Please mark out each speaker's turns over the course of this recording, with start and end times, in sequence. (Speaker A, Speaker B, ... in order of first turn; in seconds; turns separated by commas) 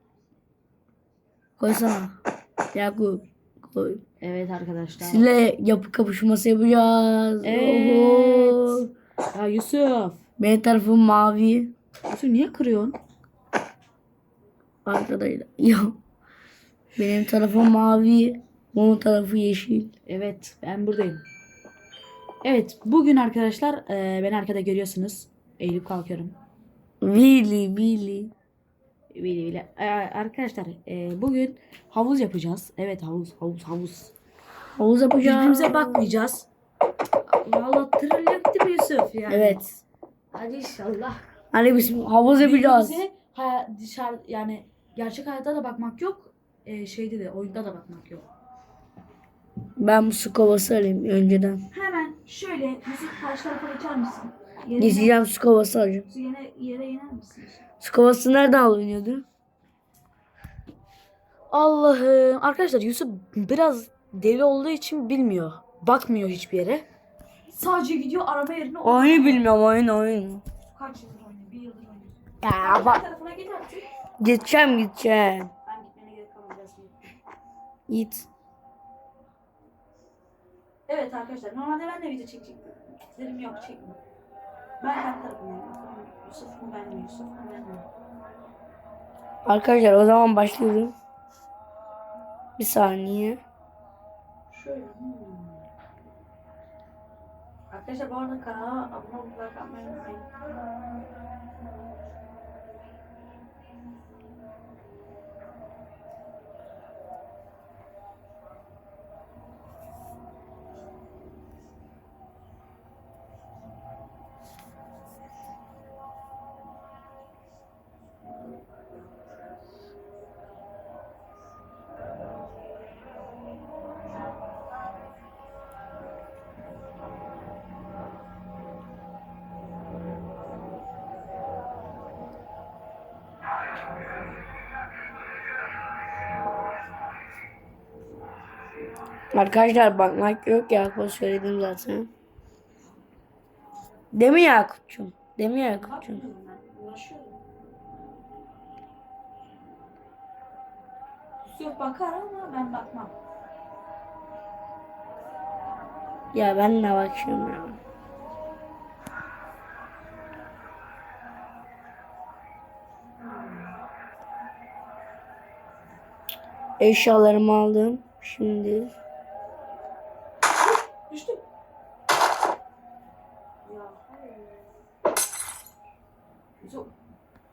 Speaker A: 1.6-2.2, Speaker A: 2.7-4.0, Speaker B: 4.2-5.3, Speaker A: 5.0-8.9, Speaker B: 7.4-10.2, Speaker A: 10.4-11.7, Speaker B: 12.1-13.0, Speaker A: 14.8-16.0, Speaker A: 17.0-19.9, Speaker B: 20.1-21.2, Speaker B: 22.4-26.4, Speaker A: 27.0-28.3, Speaker B: 29.1-34.1, Speaker A: 34.8-36.1, Speaker B: 35.2-36.5, Speaker B: 37.3-39.8, Speaker A: 39.3-39.6, Speaker B: 40.3-41.2, Speaker A: 41.5-43.0, Speaker B: 42.4-48.3, Speaker A: 49.8-51.6, Speaker B: 51.7-55.2, Speaker A: 54.8-56.1, Speaker B: 56.1-57.6, Speaker A: 57.8-59.2, Speaker B: 61.5-66.9, Speaker B: 67.5-69.5, Speaker A: 68.8-70.4, Speaker B: 70.7-73.9, Speaker A: 72.4-73.0, Speaker A: 74.2-75.5, Speaker B: 75.7-77.2, Speaker A: 77.9-78.3, Speaker B: 80.9-84.0, Speaker B: 84.8-87.9, Speaker A: 89.5-91.0, Speaker A: 92.6-93.4, Speaker B: 94.5-95.7, Speaker B: 97.7-100.4, Speaker A: 139.3-142.1, Speaker A: 144.1-146.2, Speaker B: 145.7-147.4, Speaker B: 151.4-153.1, Speaker A: 156.3-157.8, Speaker B: 163.2-163.8, Speaker A: 166.8-168.9, Speaker B: 170.6-171.4, Speaker B: 173.6-174.8, Speaker B: 176.6-176.9